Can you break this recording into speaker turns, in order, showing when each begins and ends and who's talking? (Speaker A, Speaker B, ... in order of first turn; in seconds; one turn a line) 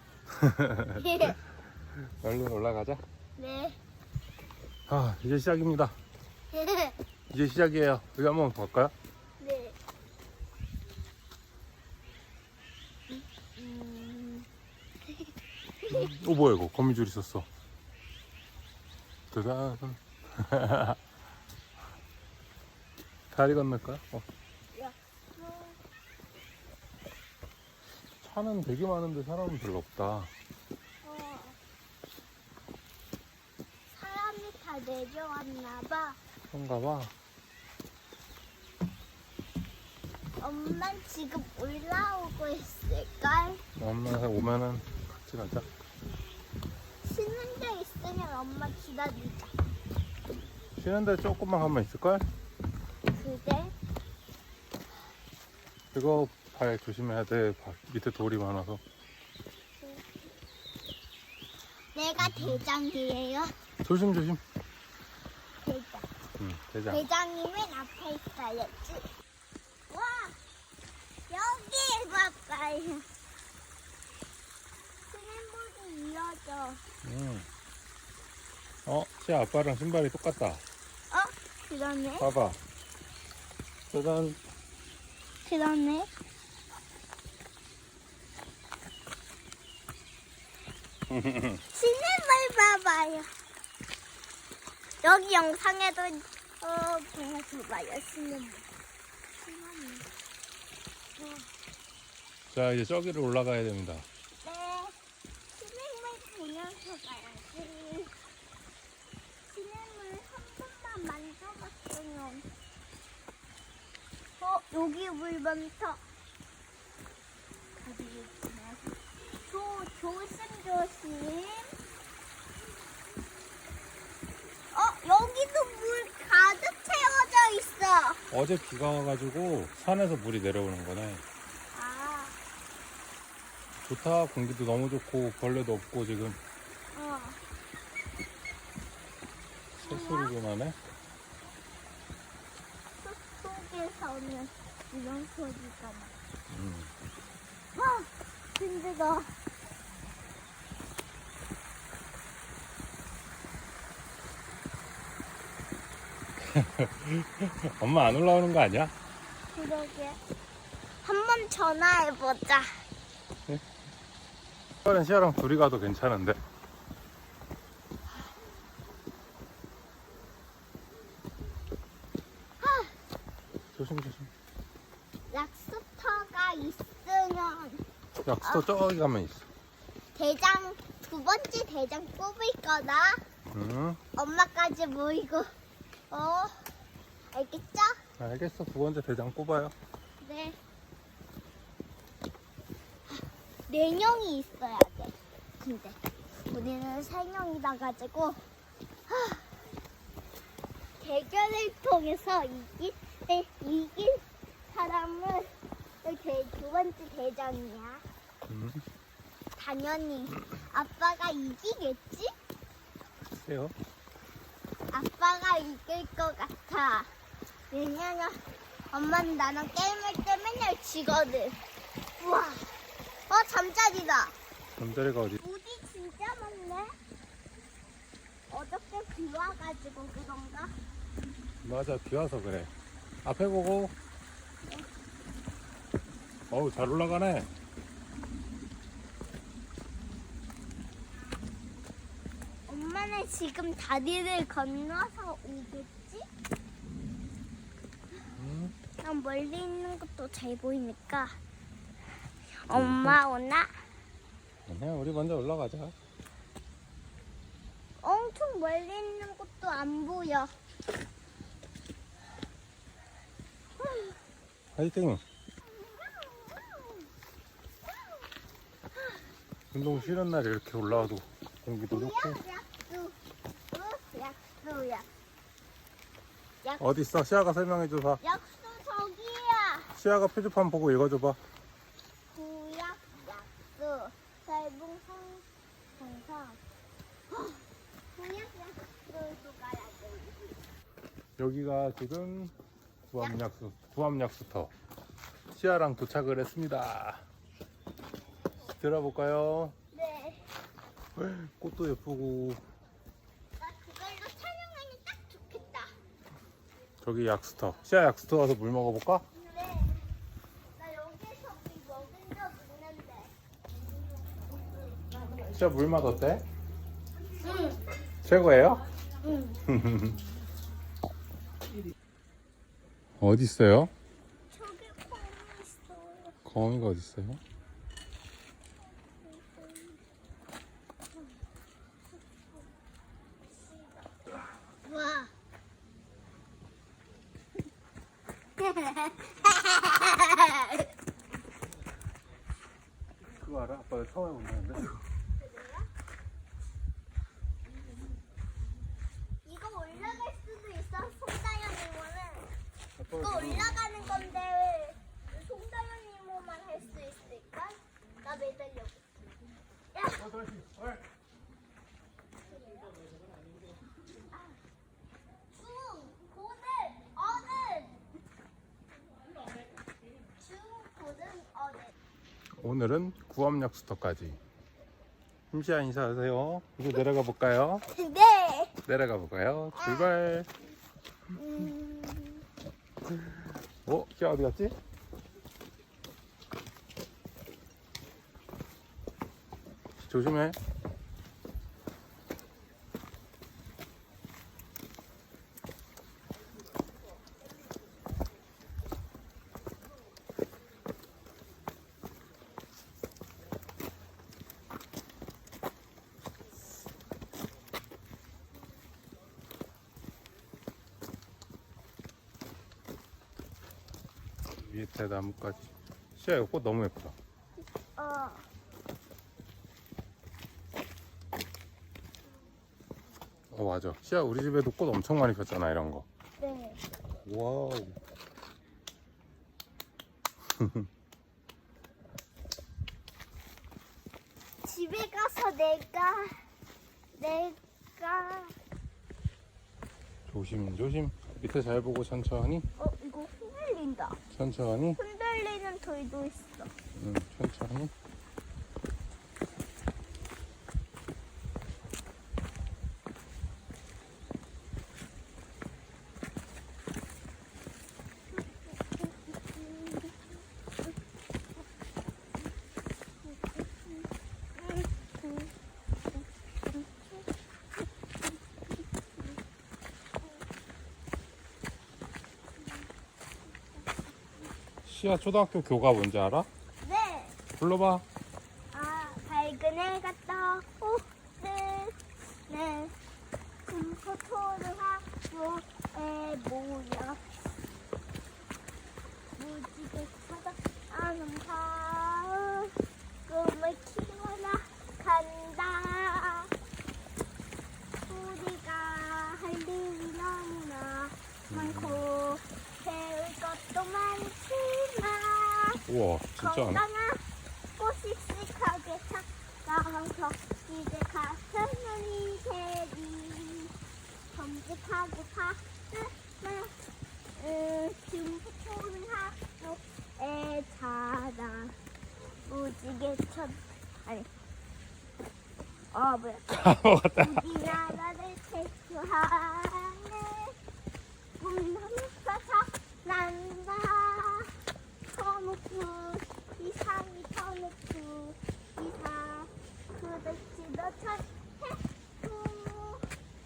Speaker A: 0.3-1.1
Speaker B: 0.9-1.4
Speaker A: 2.0-3.0
Speaker B: 3.4-3.8
Speaker A: 4.9-6.0
Speaker B: 6.5-7.0
Speaker A: 7.3-8.9
Speaker B: 9.4-9.8
Speaker B: 13.6-14.5
Speaker B: 15.8-16.1
Speaker A: 15.9-17.5
Speaker A: 19.3-21.0
Speaker A: 23.3-24.2
Speaker B: 24.7-25.8
Speaker A: 28.2-30.3
Speaker B: 31.0-31.6
Speaker B: 33.9-36.2
Speaker A: 36.5-37.1
Speaker B: 40.4-43.6
Speaker A: 43.8-45.7
Speaker B: 47.0-49.5
Speaker A: 50.7-52.3
Speaker B: 53.1-53.7
Speaker A: 55.9-58.8
Speaker B: 61.9-63.5
Speaker A: 62.2-62.6
Speaker A: 63.8-64.4
Speaker B: 65.6-66.1
Speaker A: 66.4-67.0
Speaker B: 66.9-69.1
Speaker B: 69.9-70.4
Speaker B: 71.3-73.1
Speaker B: 75.1-76.8
Speaker A: 77.0-77.5
Speaker A: 78.8-80.6
Speaker B: 81.1-82.3
Speaker A: 82.2-82.6
Speaker A: 83.9-84.4
Speaker B: 85.4-86.1
Speaker A: 91.1-91.6
Speaker B: 91.7-93.3
Speaker B: 95.0-98.7
Speaker B: 99.4-100.1
Speaker B: 101.2-101.5
Speaker A: 102.5-104.0
Speaker B: 104.4-104.9
Speaker B: 105.5-108.1
Speaker B: 109.4-112.5
Speaker B: 114.4-116.0
Speaker B: 117.8-121.8
Speaker B: 124.7-128.2
Speaker A: 128.3-131.2
Speaker B: 131.7-132.4
Speaker A: 133.8-136.4
Speaker B: 136.9-137.4
Speaker A: 139.8-140.8
Speaker B: 139.8-140.3
Speaker B: 143.0-146.1
Speaker A: 146.5-146.9
Speaker B: 147.7-149.3
Speaker A: 156.4-158.9
Speaker B: 159.5-160.2
Speaker B: 161.0-162.9
Speaker A: 164.8-166.4
Speaker B: 172.6-172.9
Speaker A: 173.7-174.3
Speaker B: 175.3-177.8
Speaker A: 178.2-179.4
Speaker B: 178.4-178.7
Speaker B: 180.1-183.2
Speaker A: 183.5-184.0
Speaker B: 184.2-185.5
Speaker B: 186.1-186.7
Speaker B: 187.3-188.0
Speaker A: 188.2-189.7
Speaker B: 190.2-190.6
Speaker B: 193.7-198.4
Speaker B: 199.1-199.5
Speaker B: 201.0-208.0
Speaker A: 208.5-208.8
Speaker B: 209.6-212.3
Speaker A: 213.3-213.7
Speaker B: 214.9-217.1
Speaker B: 217.7-218.4
Speaker B: 218.9-221.6
Speaker B: 222.2-224.3
Speaker A: 224.8-225.4
Speaker B: 225.4-227.0
Speaker B: 228.5-230.8
Speaker A: 231.6-232.7
Speaker A: 233.2-233.9
Speaker A: 236.5-237.5
Speaker B: 242.7-246.3
Speaker A: 248.4-248.7
Speaker B: 249.0-251.4
Speaker B: 252.6-253.7
Speaker A: 252.7-253.2
Speaker A: 254.7-255.9
Speaker B: 258.0-260.5
Speaker B: 263.8-264.1
Speaker A: 264.7-265.2
Speaker B: 265.6-267.1
Speaker A: 269.7-272.4
Speaker B: 271.9-273.2
Speaker B: 273.7-275.1
Speaker A: 276.8-278.2
Speaker B: 278.2-279.9
Speaker A: 279.9-281.4
Speaker B: 282.3-285.4
Speaker B: 286.0-286.6
Speaker B: 287.3-287.6
Speaker B: 288.1-290.6
Speaker A: 291.4-292.5
Speaker A: 293.1-294.7
Speaker A: 295.5-297.2
Speaker A: 298.7-299.7
Speaker B: 299.9-300.4
Speaker A: 301.1-302.6
Speaker B: 303.6-305.9
Speaker A: 307.0-309.2
Speaker B: 309.3-310.1
Speaker B: 310.7-313.3
Speaker A: 315.4-316.4
Speaker B: 317.4-317.8
Speaker A: 318.2-318.8
Speaker B: 319.2-319.6
Speaker A: 319.6-320.2
Speaker A: 323.2-323.9
Speaker B: 324.5-326.4
Speaker A: 326.4-327.4
Speaker B: 329.2-330.0
Speaker B: 334.8-335.3
Speaker B: 338.6-340.9
Speaker A: 343.3-345.0
Speaker B: 345.4-345.9
Speaker B: 349.4-352.5
Speaker A: 353.0-353.8
Speaker B: 353.1-359.0
Speaker B: 359.9-360.4
Speaker A: 360.4-361.0
Speaker B: 362.5-362.9
Speaker B: 364.3-364.6
Speaker B: 365.5-368.0
Speaker B: 370.4-371.9
Speaker A: 372.5-374.4
Speaker A: 375.5-377.8
Speaker B: 377.9-378.7
Speaker A: 378.9-380.5
Speaker B: 379.7-380.1
Speaker B: 381.3-382.4
Speaker A: 383.8-384.8
Speaker A: 390.0-390.6
Speaker A: 414.6-417.1
Speaker B: 417.6-418.5
Speaker A: 423.5-426.1
Speaker B: 426.4-426.8
Speaker A: 427.2-428.0
Speaker A: 430.4-430.9
Speaker B: 434.6-436.5
Speaker B: 437.2-438.5
Speaker A: 440.3-442.7
Speaker B: 442.8-444.2
Speaker A: 444.3-445.0
Speaker B: 444.9-446.7
Speaker A: 446.9-447.9
Speaker B: 459.2-460.1
Speaker B: 463.2-465.5
Speaker A: 474.8-476.5
Speaker B: 476.8-477.4
Speaker A: 477.6-478.0
Speaker B: 478.7-482.9
Speaker B: 483.6-487.5
Speaker B: 489.4-496.5
Speaker B: 498.1-505.8
Speaker A: 501.5-502.0
Speaker A: 505.9-506.8
Speaker B: 506.4-507.2
Speaker B: 507.8-513.7
Speaker B: 514.3-516.8
Speaker B: 517.3-521.8
Speaker B: 522.4-524.3
Speaker B: 525.9-526.5
Speaker A: 526.5-527.4
Speaker B: 527.1-530.5
Speaker B: 531.4-534.5
Speaker B: 535.1-543.1